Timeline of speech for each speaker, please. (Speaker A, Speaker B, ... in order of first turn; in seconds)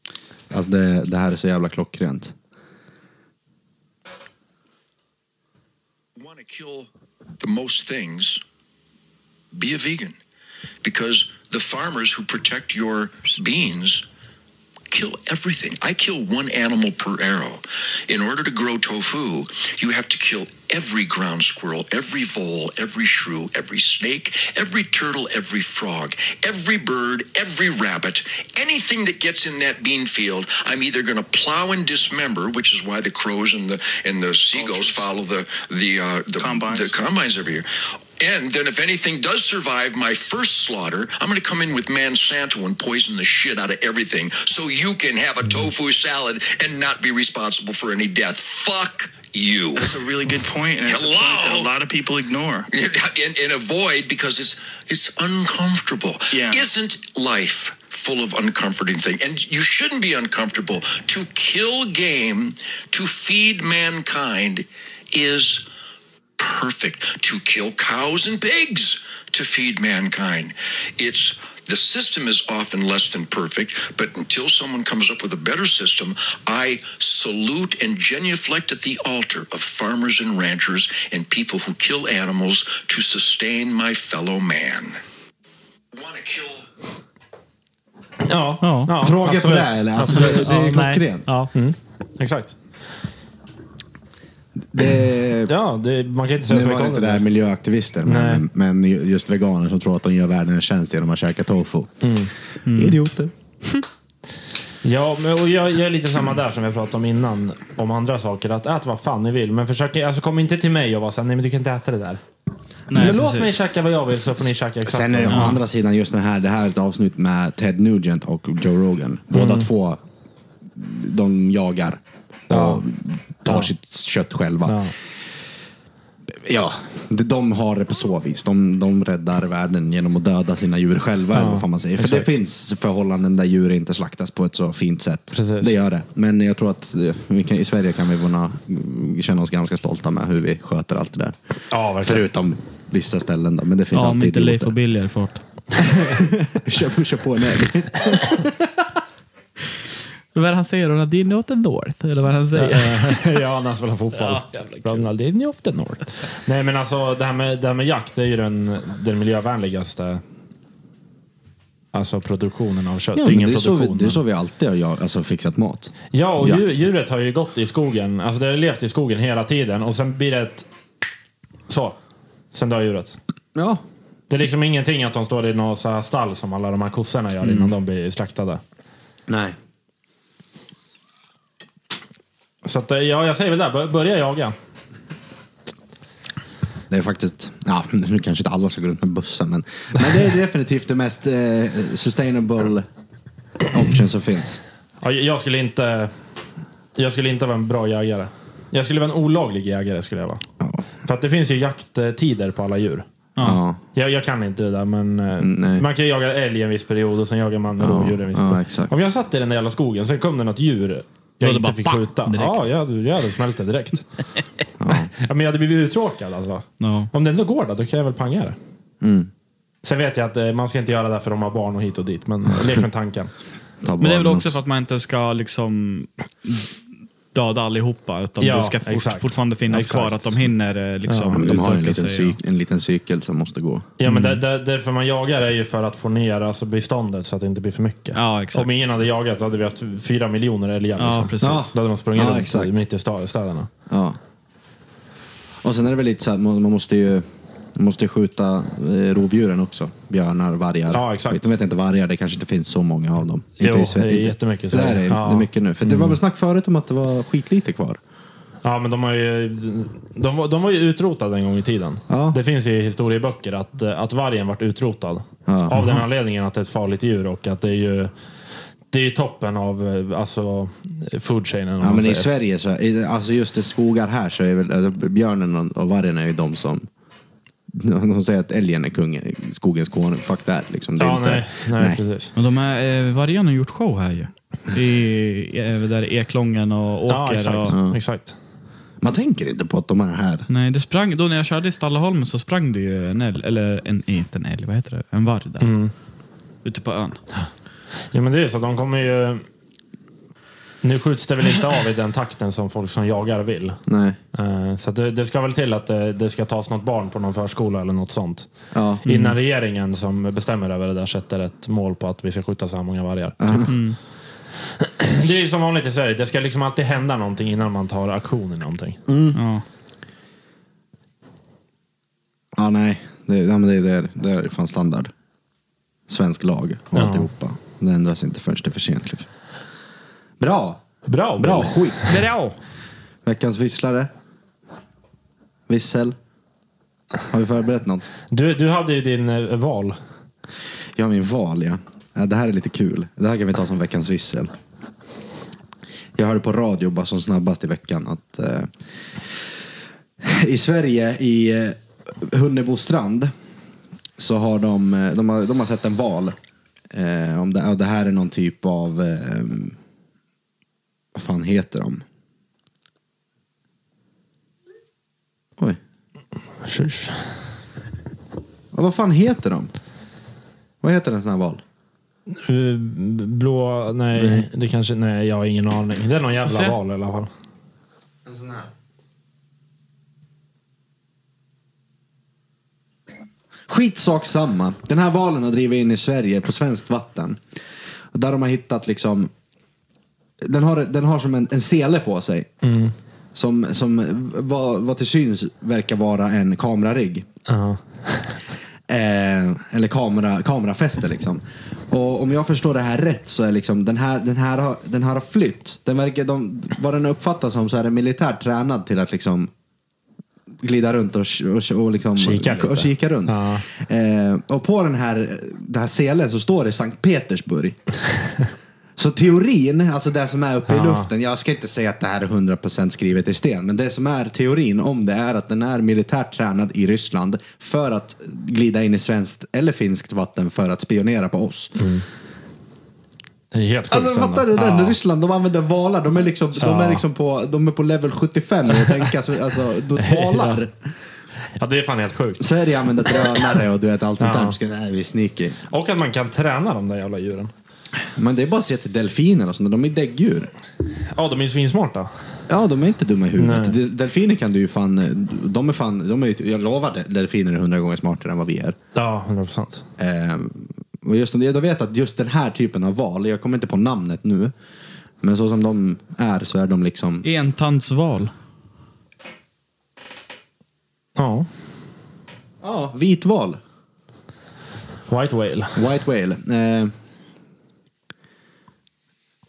Speaker A: 0.5-2.3, 89.0-91.3, 94.7-95.5, 96.5-102.1, 102.7-103.3, 114.2-120.0, 120.7-124.9, 126.3-141.3, 142.0-144.7, 145.9-148.5, 163.1-166.7, 173.5-173.8, 179.3-179.6, 186.9-192.9, 193.7-194.6, 200.6-200.9, 203.4-203.8, 205.4-205.8, 207.8-209.0, 214.8-215.1, 219.0-219.3, 223.8-224.6, 231.3-233.9, 241.4-242.8, 243.9-244.2, 245.6-247.2, 247.8-258.0, 262.1-262.4, 265.5-265.8, 271.8-276.9, 277.7-282.0, 287.7-288.0, 289.0-290.5, 303.9-304.2, 308.7-309.0, 313.4-313.7, 319.1-319.4, 322.6-325.1, 326.1-329.3, 330.4-332.0, 333.2-334.1, 335.7-336.2, 337.3-338.1, 340.9-344.5, 346.1-348.7, 350.2-353.3, 354.2-356.4, 356.9-359.8, 361.1-362.0, 368.7-369.7, 370.8-371.6, 374.1-374.5, 378.3-378.7, 383.7-387.4, 388.1-389.3, 390.4-392.5, 393.3-397.3, 398.9-409.5, 410.6-417.8, 419.0-431.8, 433.9-440.7, 442.4-445.6, 448.1-450.5, 452.5-458.8, 460.0-464.5, 465.2-467.2, 472.6-473.6, 475.8-476.9
Speaker B: 6.2-8.4, 9.5-10.2, 10.8-14.0, 14.9-50.0, 50.8-51.8, 52.7-65.6, 66.4-85.0, 85.9-86.7
Speaker C: 34.6-34.9, 36.4-37.0, 49.7-52.7, 56.3-56.6
Speaker D: 88.2-90.8, 91.5-92.6, 95.5-97.2, 98.0-98.4, 102.0-102.3, 104.8-112.2, 112.9-115.6, 119.3-119.7, 122.5-122.8, 124.7-124.9, 131.3-132.3, 135.3-135.7, 141.7-142.2, 152.5-160.2, 161.9-164.2, 166.1-170.7, 171.7-172.0, 172.5-173.2, 174.3-178.6, 182.6-184.5, 195.0-196.1, 196.9-200.4, 201.0-203.1, 203.9-214.0, 214.9-218.6, 219.8-223.3, 228.4-230.3, 231.1-231.4, 234.0-243.7, 250.9-251.4, 253.6-256.2, 258.6-268.1, 268.9-272.3, 281.0-282.3, 287.1-288.3, 295.6-295.9, 298.1-299.4, 300.8-303.8, 304.3-308.5, 309.0-313.8, 314.8-319.0, 326.9-327.3, 331.1-332.2, 338.3-340.0, 366.6-367.3, 372.3-377.3, 392.6-392.9, 397.5-398.4, 412.1-413.6, 420.7-421.1, 431.8-432.0, 433.5-435.0, 436.6-437.0, 440.0-440.6, 441.6-442.5, 444.2-444.6, 445.7-447.5, 451.1-452.1, 453.4-453.8, 458.9-459.8, 471.1-471.5, 475.1-475.8
Speaker E: 88.6-88.9, 90.1-91.5, 102.7-103.0, 112.9-113.6, 115.3-115.6, 143.9-145.4, 150.3-153.3, 154.2-155.0, 203.3-203.6, 211.4-212.7, 216.8-217.1, 224.0-226.7, 227.3-232.4, 234.1-234.3, 238.1-238.7, 241.0-241.7, 282.4-287.8, 290.5-295.7, 296.6-297.2, 309.0-309.4, 313.7-314.0, 319.3-319.6, 332.0-332.6, 376.4-376.7, 467.2-468.3